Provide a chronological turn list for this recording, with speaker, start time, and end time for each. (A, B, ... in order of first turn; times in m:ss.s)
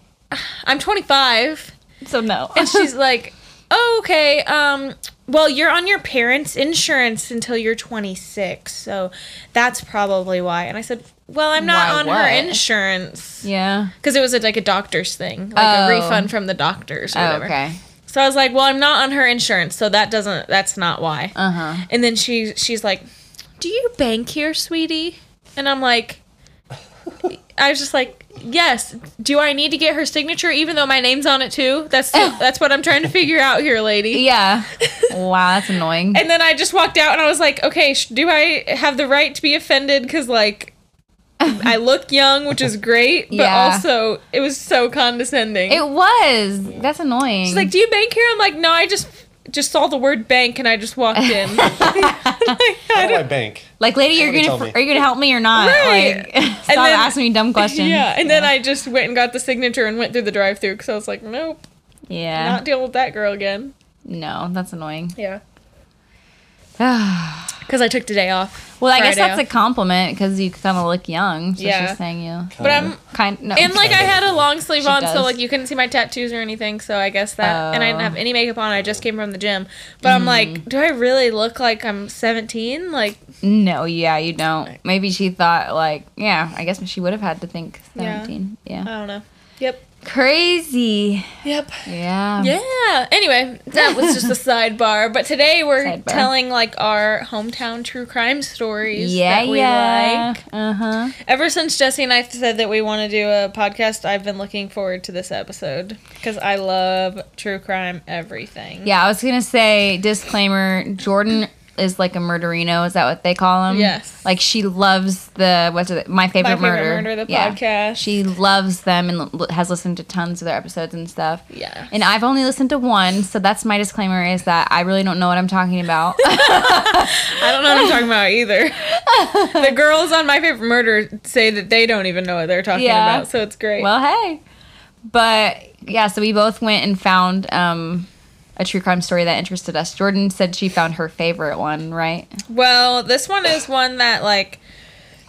0:00.3-0:01.7 A
0:02.0-0:02.9 B
0:02.5-0:13.5 A
0:11.6-0:12.6 B
0:13.4-0:13.9 B
0:14.0-0:17.5 A
0:15.6-0:16.3 B
0:17.1-0:17.8 B
0:18.1-0:23.0 A
0:21.3-0:21.8 B
0:23.6-0:26.2 A
0:27.2-0:34.2 A
0:32.1-0:32.4 B
0:34.1-0:36.2 B
0:34.8-0:35.1 A
0:36.1-0:40.7 A
0:41.4-0:45.8 A
0:43.3-0:43.8 B
0:45.7-0:47.7 B
0:47.4-0:53.2 A
0:51.2-0:52.6 B
0:52.9-0:54.8 C
0:53.8-0:58.5 B
0:55.5-1:01.6 A
1:02.1-1:02.6 B
1:02.3-1:03.7 A
1:04.0-1:05.1 B
1:05.2-1:05.4 A
1:06.8-1:07.6 B
1:07.6-1:09.4 A
1:08.8-1:14.0 B
1:11.6-1:12.0 A
1:12.6-1:13.0 C
1:12.6-1:13.0 A
1:13.5-1:23.2 A
1:13.6-1:14.5 C
1:14.8-1:15.4 B
1:17.4-1:18.2 B
1:20.0-1:20.6 B
1:23.4-1:28.9 B
1:27.9-1:28.3 A
1:28.8-1:29.8 A
1:30.0-1:31.3 B
1:31.4-1:31.9 A
1:31.8-1:32.6 B
1:32.4-1:40.4 A
1:33.7-1:34.3 B
1:35.8-1:36.3 B
1:38.9-1:41.1 B
1:41.2-1:48.9 A
1:48.8-2:08.0 B
1:53.7-1:54.2 A
1:56.4-1:58.1 A
2:01.5-2:01.9 A
2:06.4-2:08.8 A
2:08.9-2:09.8 B
2:09.5-2:13.9 A
2:12.7-2:14.4 B
2:15.1-2:22.3 B
2:22.5-2:24.6 A